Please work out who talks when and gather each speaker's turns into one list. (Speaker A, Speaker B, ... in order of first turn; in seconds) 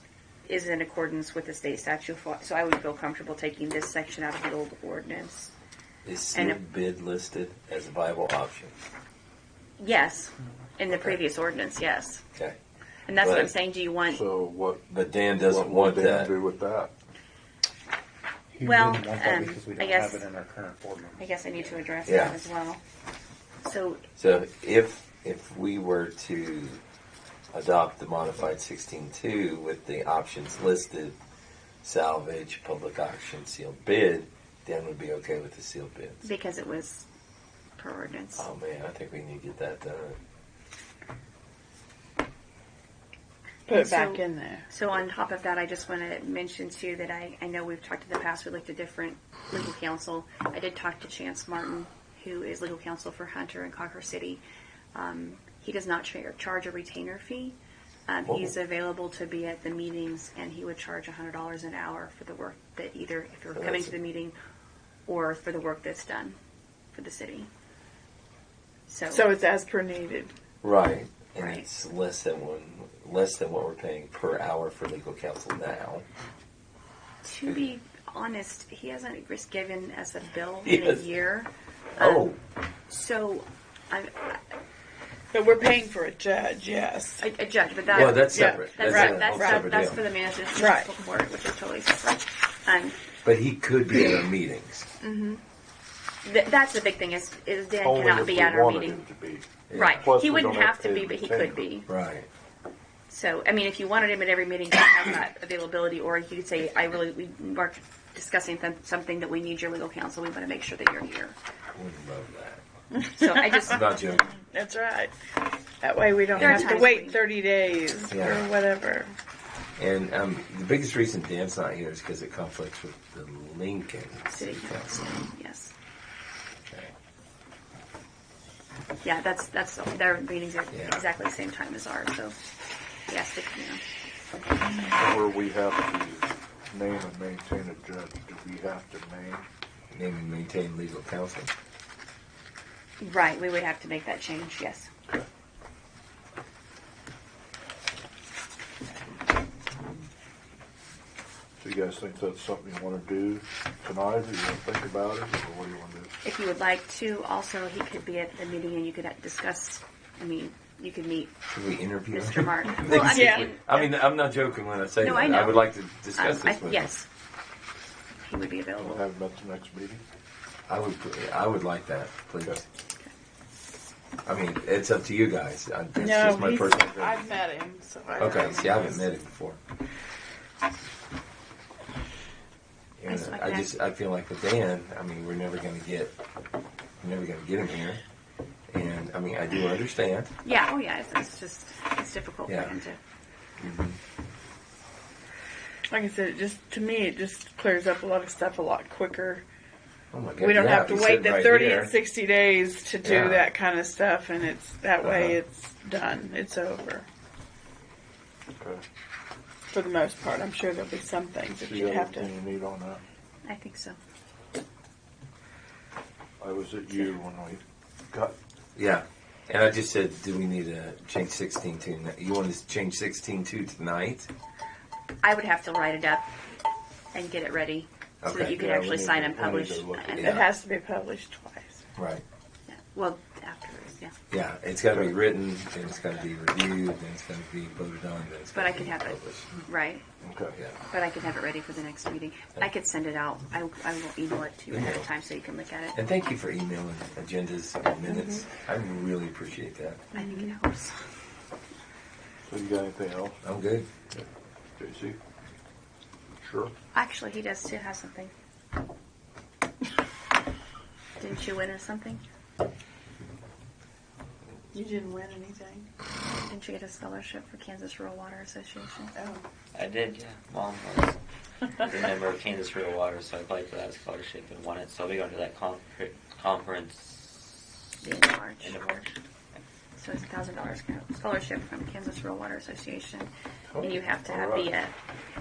Speaker A: 0.5-5.5, 6.3-6.6, 9.8-12.2, 13.1-14.2, 18.6-20.2, 21.2-22.8, 23.6-24.0, 36.2-37.1, 37.8-38.5, 43.7-54.4, 54.9-64.3, 65.1-66.4, 66.9-67.5, 68.9-69.3, 71.4-71.6, 77.2-82.3, 82.9-84.4, 87.2-93.0, 95.0-95.4, 96.2-99.0, 99.7-101.9, 103.1-111.4, 113.2-113.9, 116.4-117.2, 124.3-125.7, 129.0-132.3, 133.1-133.8, 143.0-144.9, 156.2-161.3, 162.1-163.9, 165.0-165.6, 166.2-167.1, 168.2-169.0, 183.1-183.7, 190.4-193.0, 213.4-214.0, 225.2-226.2, 227.1-230.4, 232.7-234.1, 238.5-240.0, 240.9-245.9, 250.1-251.0, 256.9-258.3, 261.2-262.2, 266.4-269.1, 278.0-278.8, 280.0-284.9
Speaker B: 6.0-8.7, 10.9-11.2, 13.2-13.5, 14.9-16.3, 22.1-22.4, 24.1-26.8, 27.5-31.2, 31.8-36.2, 38.4-40.2, 58.2-58.5, 63.5-63.9, 70.6-76.0, 80.6-81.0, 82.0-82.4, 87.9-90.0, 93.2-94.9, 99.7-100.1, 101.9-102.3, 111.7-112.6, 113.5-114.2, 116.3-116.7, 118.1-118.5, 119.8-124.9, 130.7-131.0, 139.9-141.5, 161.5-166.9, 170.7-172.6, 174.2-177.1, 178.2-179.6, 183.0-186.1, 187.0-188.0, 188.7-190.3, 192.5-192.7, 193.6-194.0, 200.1-201.9, 203.0-203.5, 205.0-205.4, 218.7-224.3, 228.2-228.6, 230.1-230.5, 231.9-232.2, 234.3-239.5, 240.5-240.8, 244.7-245.1, 245.9-250.0, 253.4-254.2
Speaker C: 14.1-14.9, 15.4-16.9, 97.8-99.5, 100.0-101.6, 134.9-139.5, 151.6-156.1, 168.8-170.0, 208.6-208.8, 211.6-213.0, 216.4-218.3, 228.5-230.2, 240.2-240.5, 252.4-253.4, 254.8-255.2, 256.4-256.7, 283.8-284.6
Speaker D: 18.5-21.8
Speaker E: 43.7-44.6, 69.1-70.3, 85.3-87.2, 88.2-89.6, 90.5-90.9, 114.4-115.1, 115.8-119.1, 163.0-163.5, 175.9-179.1, 195.9-199.4, 200.4-207.1, 209.7-212.3, 230.2-231.8, 264.7-265.9, 269.1-269.4
Speaker F: 269.7-271.2, 271.8-277.6, 278.5-279.1